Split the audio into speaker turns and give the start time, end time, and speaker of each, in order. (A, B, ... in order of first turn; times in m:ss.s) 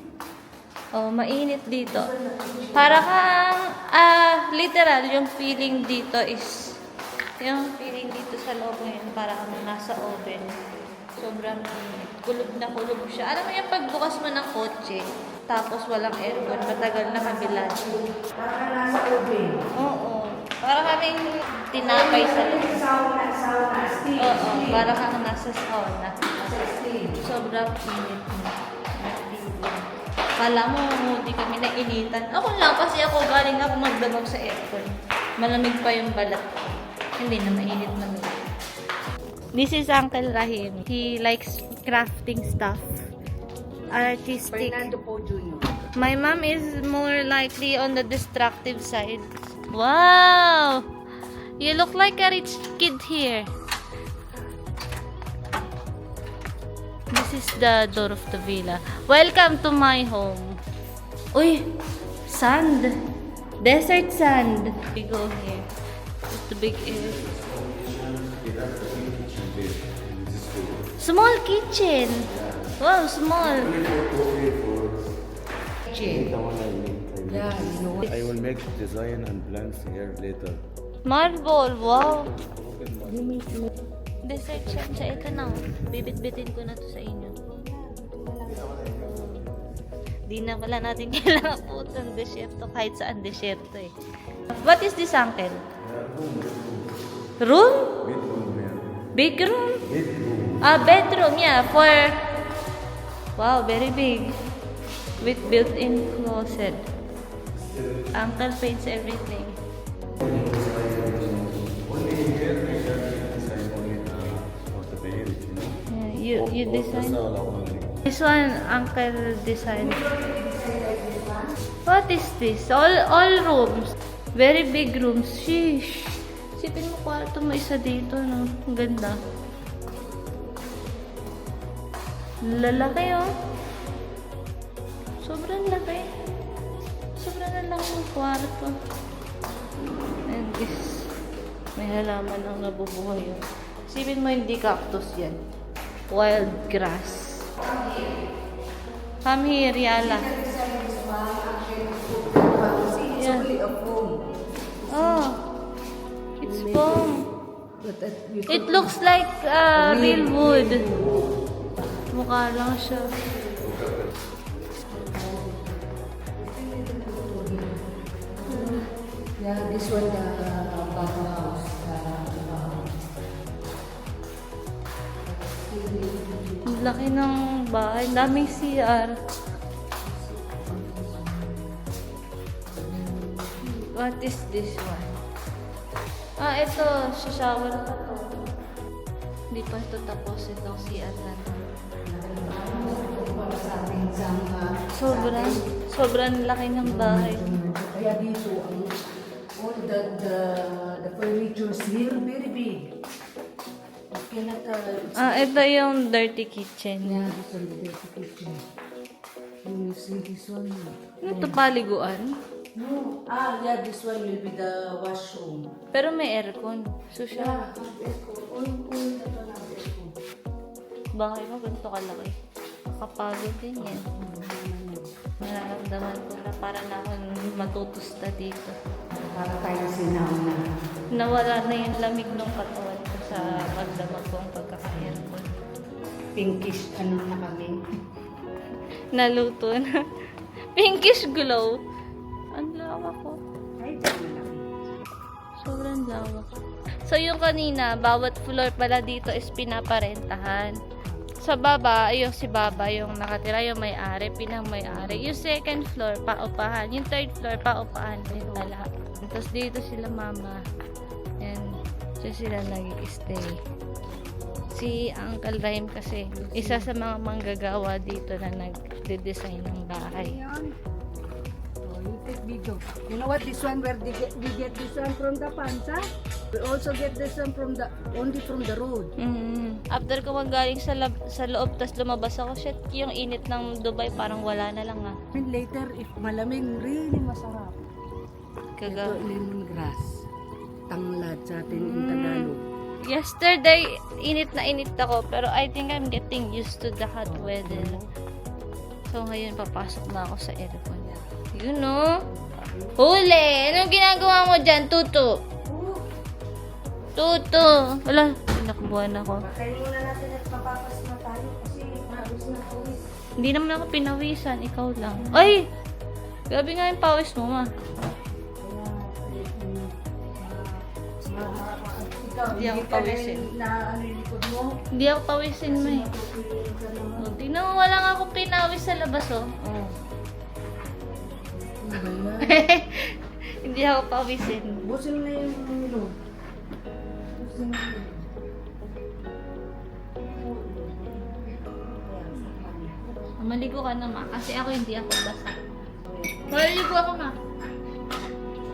0:00.9-0:02.1 A
0:01.8-0:03.1 B
0:02.7-0:06.6 A
0:07.4-0:10.4 A
0:11.2-0:18.0 A
0:16.2-0:19.6 B
0:19.7-0:21.2 A
0:21.7-0:22.8 A
0:21.7-0:24.8 B
0:24.2-0:26.1 A
0:26.4-0:27.1 B
0:27.2-0:29.8 A
0:30.4-0:36.7 A
0:37.2-0:38.3 A
0:39.5-0:42.8 A
0:43.9-0:44.9 A
0:44.5-0:45.8 B
0:46.0-0:50.8 A
0:51.6-0:53.5 A
0:57.1-1:00.6 A
1:01.3-1:01.6 A
1:02.3-1:02.9 A
1:03.6-1:05.6 A
1:06.3-1:07.2 A
1:07.0-1:10.9 C
1:11.0-1:12.2 A
1:12.8-1:13.7 A
1:13.5-1:15.1 C
1:15.9-1:20.6 C
1:17.3-1:18.1 B
1:21.0-1:22.3 A
1:22.2-1:23.3 C
1:23.1-1:23.7 B
1:24.2-1:27.4 A
1:27.5-1:28.7 B
1:28.7-1:29.4 C
1:30.3-1:33.9 A
1:34.5-1:35.7 A
1:35.8-1:36.9 C
1:37.4-1:37.9 A
1:38.0-1:38.9 C
1:39.1-1:39.8 A
1:39.8-1:40.6 C
1:40.6-1:42.1 A
1:43.4-1:44.3 A
1:45.2-1:46.8 A
1:47.6-1:48.1 C
1:48.1-1:49.5 A
1:50.2-1:55.8 C
1:55.9-1:57.2 A
1:56.3-1:58.0 C
1:58.0-2:00.0 A
1:59.7-2:01.5 B
2:01.8-2:09.2 A
2:12.4-2:13.3 A
2:15.2-2:16.1 A
2:17.2-2:18.7 A
2:20.3-2:21.1 A
2:21.8-2:25.4 A
2:26.1-2:27.4 A
2:27.6-2:28.1 B
2:29.2-2:30.3 A
2:30.0-2:34.2 B
2:33.1-2:33.5 A
2:34.8-2:35.3 B
2:34.9-2:35.4 A
2:36.4-2:37.1 A
2:36.4-2:37.2 B
2:37.8-2:38.9 B
2:38.5-2:40.8 A
2:39.8-2:41.2 B
2:42.1-2:43.0 A
2:43.3-2:43.8 B
2:44.9-2:48.9 B
2:48.5-2:48.8 A
2:49.4-2:52.9 B
2:55.2-2:57.2 B
2:56.7-2:59.1 A
2:58.2-2:58.5 B
3:00.0-3:01.8 B
3:02.7-3:03.7 B
3:03.6-3:05.1 A
3:06.4-3:08.4 A
3:09.5-3:11.6 A
3:12.0-3:15.6 B
3:14.9-3:17.4 A
3:16.8-3:19.0 B
3:19.6-3:22.9 B
3:24.1-3:25.6 B
3:25.2-3:27.3 A
3:27.0-3:28.6 B
3:29.6-3:31.6 B
3:31.2-3:32.3 A
3:32.7-3:35.6 B
3:35.9-3:37.6 A
3:37.3-3:40.1 B
3:41.2-3:42.3 A
3:42.9-3:44.0 A
3:43.8-3:45.0 B
3:45.4-3:48.7 A
3:49.1-3:50.6 B
3:51.1-3:55.5 A
3:53.3-3:54.2 B
3:54.9-3:55.2 B
3:56.4-3:57.7 B
3:59.1-3:59.8 A
4:00.7-4:01.8 A
4:02.5-4:03.3 A
4:03.8-4:04.6 B
4:05.6-4:06.4 A
4:07.0-4:10.7 A
4:11.4-4:20.6 A
4:14.8-4:15.3 B
4:18.3-4:18.7 B
4:21.4-4:21.7 A
4:22.2-4:23.6 A
4:24.7-4:30.4 A
4:26.3-4:26.9 B
4:30.1-4:30.8 B
4:31.8-4:36.0 B
4:36.5-4:39.1 B
4:39.2-4:45.1 A
4:45.3-4:47.8 B
4:48.8-4:49.2 A
4:48.8-4:50.2 B
4:50.9-4:52.6 B
4:51.7-4:52.5 A
4:53.0-4:58.0 A
4:57.2-4:58.0 B
4:59.1-5:02.0 A
5:02.4-5:03.0 B
5:03.0-5:05.3 A
5:05.7-5:06.0 B
5:07.2-5:09.4 A
5:09.4-5:13.0 B
5:13.4-5:15.6 A
5:15.3-5:15.5 B
5:16.5-5:17.7 A
5:18.6-5:24.7 B
5:22.5-5:23.4 A
5:24.9-5:26.1 A
5:25.7-5:27.3 B
5:27.2-5:29.9 A
5:31.8-5:32.6 B
5:32.4-5:34.8 A
5:34.8-5:36.1 B
5:37.3-5:38.3 B
5:40.2-5:43.2 B
5:43.4-5:45.6 A
5:46.0-5:46.5 B
5:46.5-5:47.4 A